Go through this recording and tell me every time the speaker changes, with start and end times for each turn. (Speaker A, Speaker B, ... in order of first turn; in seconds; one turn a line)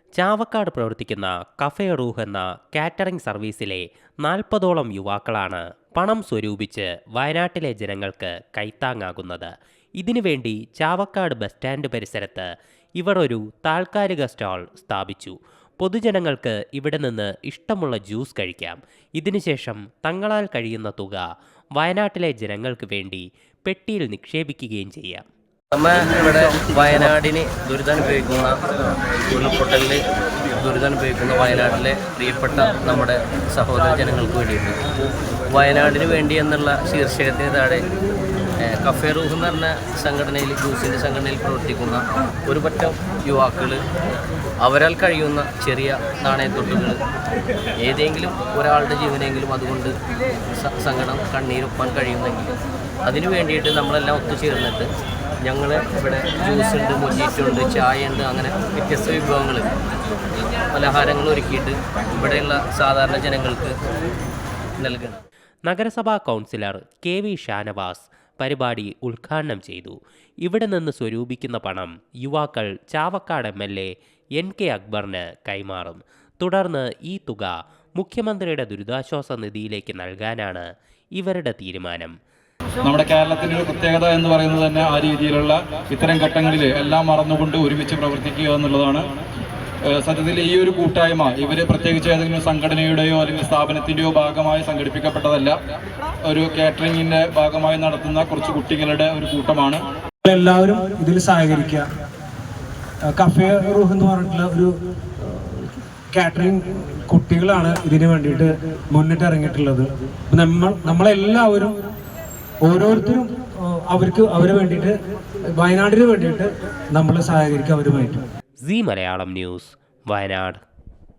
Speaker A: 0.2-21.2
Speaker A: 21.8-25.2
Speaker B: 25.7-28.6
Speaker B: 29.3-30.0
Speaker B: 30.6-34.8
Speaker B: 35.5-37.8
Speaker B: 38.6-43.8
Speaker B: 44.6-47.0
Speaker B: 47.8-49.9
Speaker B: 50.5-54.9
Speaker B: 55.4-59.7
Speaker B: 60.7-63.8
Speaker B: 64.8-65.2
Speaker A: 65.6-80.7
Speaker A: 81.2-82.1
Speaker C: 82.8-89.0
Speaker C: 89.9-95.5
Speaker C: 96.3-99.8
Speaker D: 100.2-101.8
Speaker D: 103.1-111.8
Speaker D: 112.6-113.3
Speaker D: 113.9-114.9
Speaker D: 115.6-118.2
Speaker A: 118.6-120.6